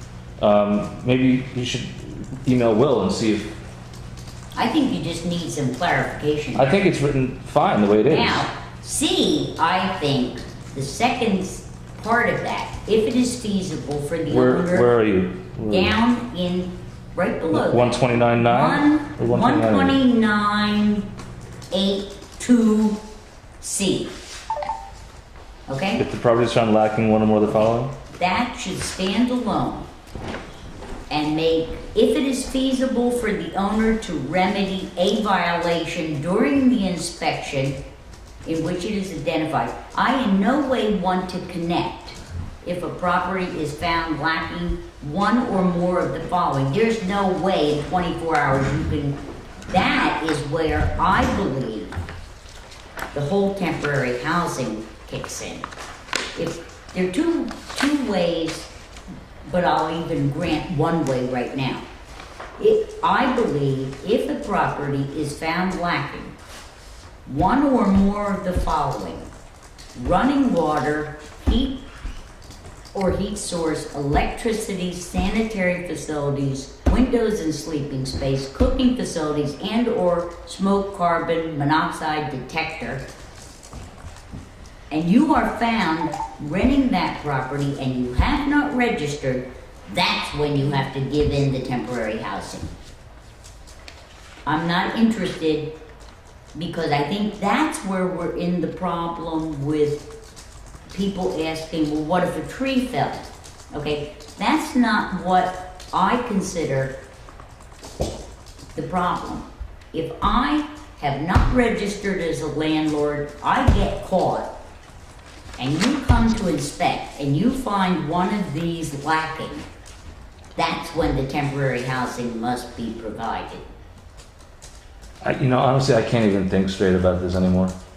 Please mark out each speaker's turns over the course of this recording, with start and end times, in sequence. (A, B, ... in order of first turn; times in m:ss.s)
0:00.4-0:03.5 A
0:04.6-0:06.9 B
0:06.6-0:08.5 A
0:08.1-0:14.9 B
0:14.3-0:16.0 A
0:15.7-0:21.1 B
0:17.5-0:20.0 A
0:21.7-0:23.0 B
0:23.6-0:24.2 B
0:25.7-0:26.0 B
0:26.0-0:28.0 A
0:28.1-0:29.9 B
0:31.1-0:37.8 B
0:38.4-0:49.2 B
0:49.7-0:52.0 B
0:53.1-0:55.7 B
0:56.4-0:58.7 B
0:59.4-1:01.8 B
1:02.6-1:06.4 B
1:07.3-1:09.3 B
1:10.0-1:11.8 B
1:12.9-1:23.0 B
1:24.9-1:32.7 B
1:34.5-1:35.7 B
1:36.6-1:40.1 B
1:40.9-1:47.0 B
1:48.8-1:54.5 B
1:55.6-1:59.6 B
2:00.6-2:03.6 B
2:05.2-2:07.7 A